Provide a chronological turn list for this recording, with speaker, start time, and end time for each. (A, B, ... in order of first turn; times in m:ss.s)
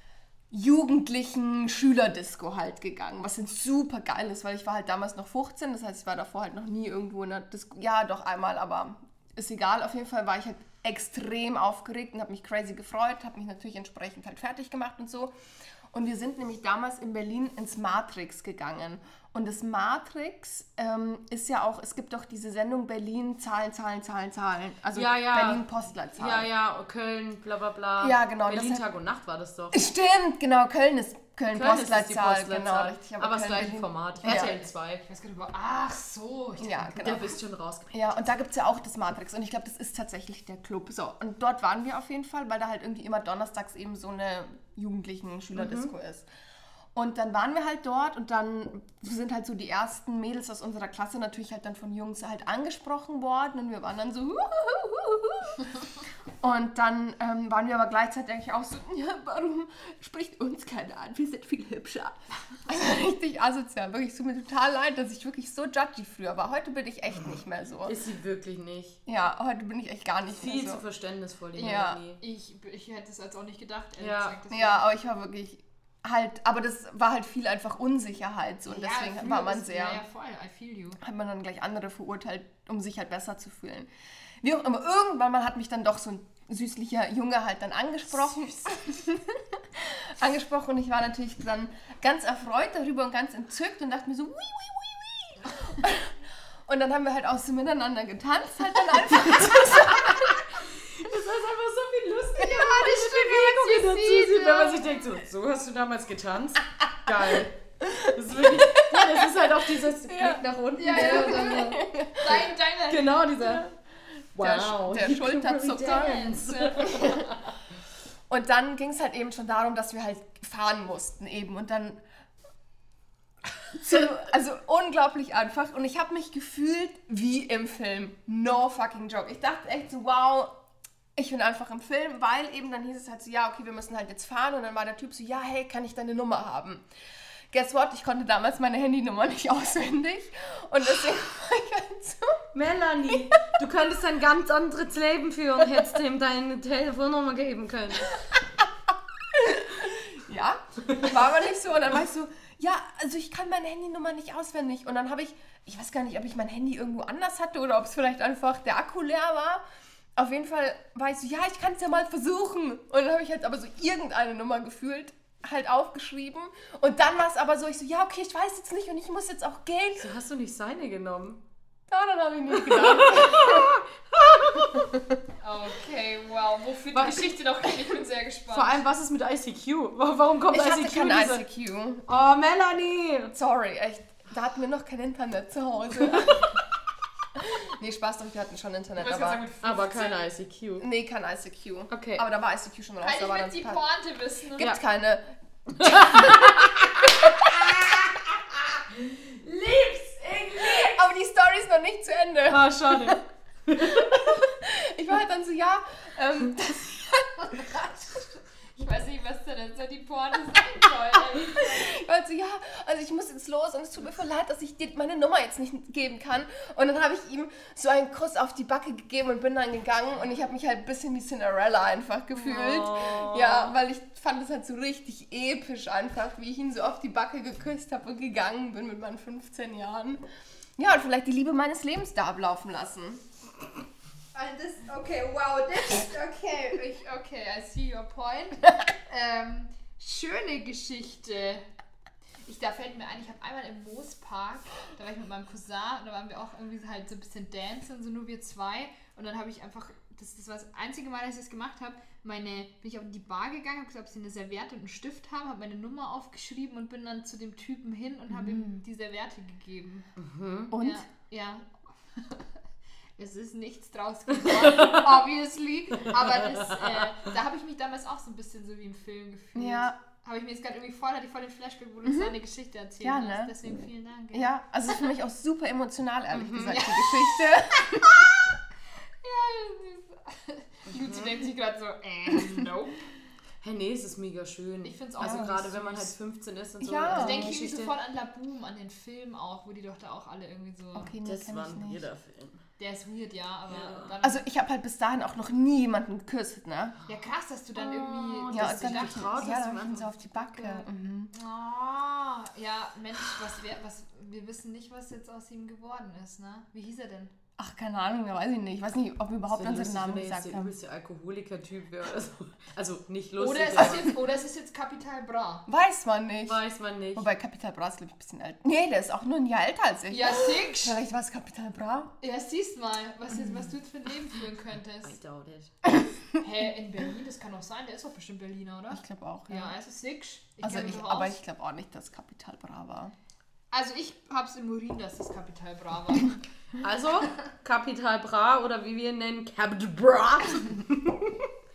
0:00.5-0:15.3 A
0:15.9-0:26.5 A
0:24.9-0:29.9 B
0:28.0-0:28.8 A
0:29.7-0:34.6 A
0:31.5-0:35.1 B
0:34.2-0:37.4 C
0:36.6-0:37.4 A
0:37.0-0:38.1 B
0:37.9-0:46.3 A
0:45.5-0:45.9 B
0:46.9-0:55.8 A
0:56.4-1:08.0 A
1:07.9-1:09.0 B
1:09.1-1:10.8 A
1:10.3-1:12.2 B
1:11.6-1:12.0 A
1:12.2-1:14.9 C
1:14.0-1:14.4 B
1:14.5-1:20.0 A
1:18.7-1:21.0 C
1:21.0-1:23.9 A
1:24.4-1:40.6 A
1:40.9-1:53.7 B
1:42.4-1:45.0 C
1:47.1-1:52.4 A
1:50.7-1:53.6 C
1:54.4-1:56.2 A
1:54.4-1:57.4 B
1:55.7-1:57.0 C
1:56.8-1:57.3 A
1:58.3-2:02.0 A
2:03.6-2:10.6 A
2:11.2-2:16.8 A
2:17.5-2:22.5 A
2:22.5-2:28.1 B
2:29.3-2:39.6 A
2:40.2-2:50.1 A
2:50.0-2:51.4 B
2:51.9-2:53.8 A
2:52.5-2:54.9 B
2:54.7-2:55.0 A
2:55.4-2:58.8 C
2:56.9-2:57.8 B
2:58.5-3:01.4 B
3:00.5-3:02.0 A
3:02.1-3:03.3 B
3:03.3-3:06.6 A
3:07.4-3:09.4 A
3:09.0-3:10.2 C
3:09.6-3:10.9 B
3:10.8-3:13.8 A
3:11.9-3:12.2 B
3:13.0-3:14.8 C
3:14.6-3:17.7 A
3:15.8-3:18.2 B
3:19.2-3:19.6 B
3:19.9-3:20.4 C
3:20.2-3:20.8 B
3:20.5-3:23.2 A
3:22.5-3:24.1 B
3:23.8-3:27.7 A
3:27.5-3:32.0 C
3:31.4-3:50.3 A
3:42.4-3:43.7 B
3:50.8-3:53.2 A
3:54.3-4:01.6 C
4:02.4-4:20.1 C
4:18.3-4:18.8 A
4:20.2-4:20.7 B
4:20.7-4:21.0 A
4:20.7-4:22.4 C
4:23.2-4:34.6 C
4:24.5-4:25.2 B
4:26.0-4:27.1 B
4:29.6-4:30.0 A
4:32.1-4:32.3 A
4:33.0-4:33.5 A
4:34.3-4:38.6 A
4:36.3-4:36.8 B
4:36.7-4:37.3 C
4:39.2-4:43.1 C
4:40.9-4:41.3 B
4:43.6-4:47.9 B
4:44.8-4:46.1 C
4:45.2-4:45.6 A
4:46.8-4:47.6 A
4:47.1-4:51.2 C
4:51.0-4:52.1 A
4:51.2-4:52.6 B
4:52.8-4:54.4 C
4:53.7-4:54.1 B
4:54.2-4:57.0 A
4:57.1-4:59.6 C
4:57.8-5:00.8 B
4:58.5-5:01.3 A
5:01.3-5:07.3 C
5:07.6-5:10.7 A
5:09.5-5:14.2 B
5:13.4-5:15.7 C
5:15.7-5:16.6 A
5:16.5-5:17.3 B
5:17.2-5:22.1 A
5:20.1-5:21.0 C
5:22.2-5:25.2 C
5:25.0-5:25.7 B
5:26.3-5:31.4 C
5:28.9-5:29.8 A
5:30.6-5:33.1 A
5:33.7-5:36.4 C
5:36.8-5:41.5 B